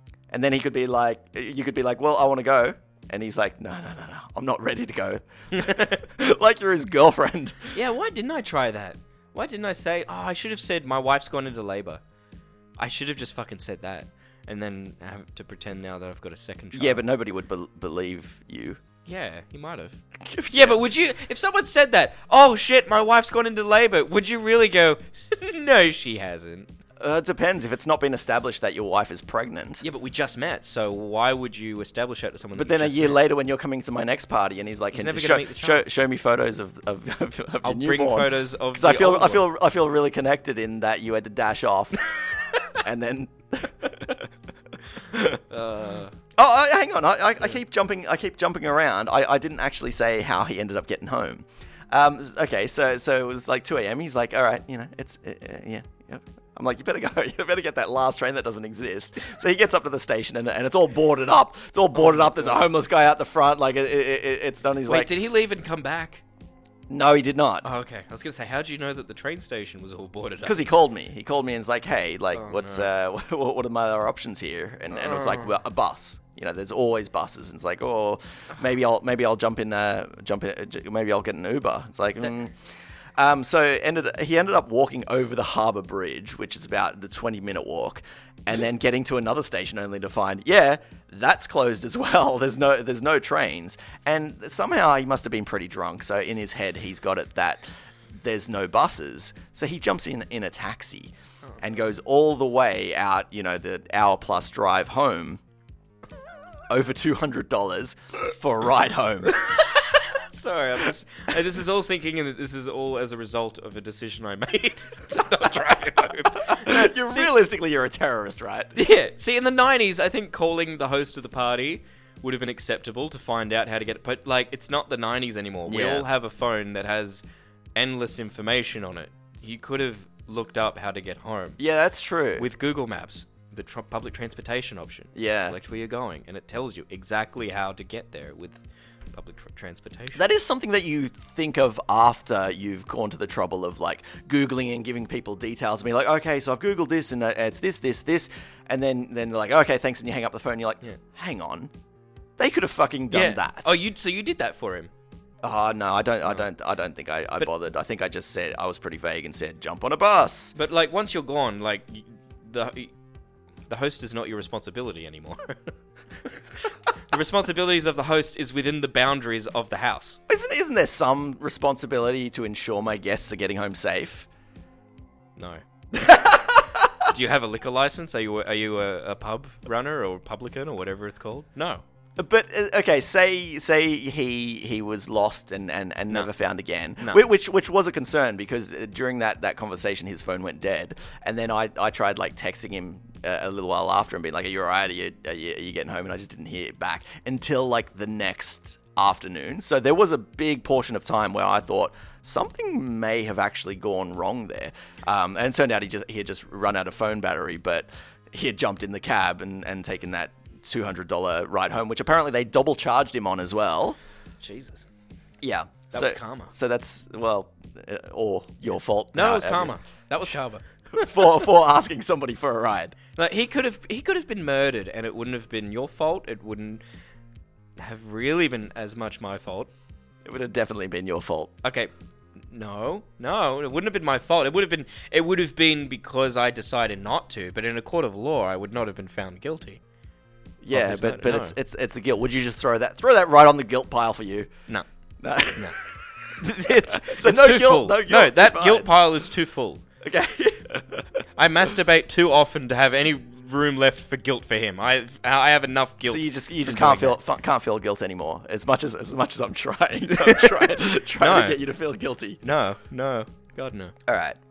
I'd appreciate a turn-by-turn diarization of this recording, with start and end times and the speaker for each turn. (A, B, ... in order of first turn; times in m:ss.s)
0:00.3-0:07.8 A
0:05.5-0:06.0 B
0:07.7-0:12.0 B
0:12.8-0:17.0 B
0:16.7-0:18.8 A
0:19.1-0:20.0 B
0:20.2-0:20.8 A
0:20.5-0:26.7 B
0:27.0-0:29.8 A
0:29.8-0:33.2 B
0:32.6-0:42.0 A
0:34.9-0:35.8 B
0:37.6-0:39.5 B
0:42.4-0:42.8 B
0:42.7-0:44.3 A
0:45.1-0:45.4 A
0:45.5-0:46.1 B
0:46.4-1:05.1 A
1:02.0-1:02.6 B
1:04.9-1:06.2 B
1:06.9-1:07.7 A
1:07.6-1:10.6 B
1:10.4-1:37.6 A
1:12.4-1:12.9 B
1:14.9-1:15.5 B
1:38.1-1:45.4 A
1:46.7-1:49.4 A
1:49.3-1:57.3 B
1:56.4-1:58.7 A
1:58.8-2:07.2 B
2:05.7-2:06.1 A
2:07.8-2:11.6 B
2:11.6-2:12.5 A
2:12.4-2:18.6 B
2:15.2-2:15.6 A
2:19.1-2:20.2 B
2:20.2-2:31.7 A
2:32.4-2:33.7 A
2:33.1-2:34.9 B
2:35.4-2:40.5 A
2:40.6-2:42.9 B
2:43.7-2:45.7 B
2:46.2-2:50.2 B
2:50.3-2:54.3 A
2:55.4-3:01.8 B
3:02.2-3:34.0 A
3:34.4-3:34.9 B
3:35.4-3:39.8 A
3:35.9-3:36.5 B
3:39.1-3:40.6 B
3:40.9-3:43.0 A
3:43.2-3:46.8 B
3:47.8-3:49.7 B
3:50.2-3:51.5 A
3:51.6-3:51.9 B
3:52.5-3:59.8 B
4:00.6-4:04.5 A
4:00.7-4:01.5 B
4:05.2-4:05.7 A
4:06.4-4:09.8 B
4:06.6-4:08.9 A
4:10.0-4:11.2 A
4:11.4-4:17.2 B
4:16.1-4:22.4 A
4:20.1-4:21.6 B
4:22.4-4:24.0 B
4:24.1-4:24.4 A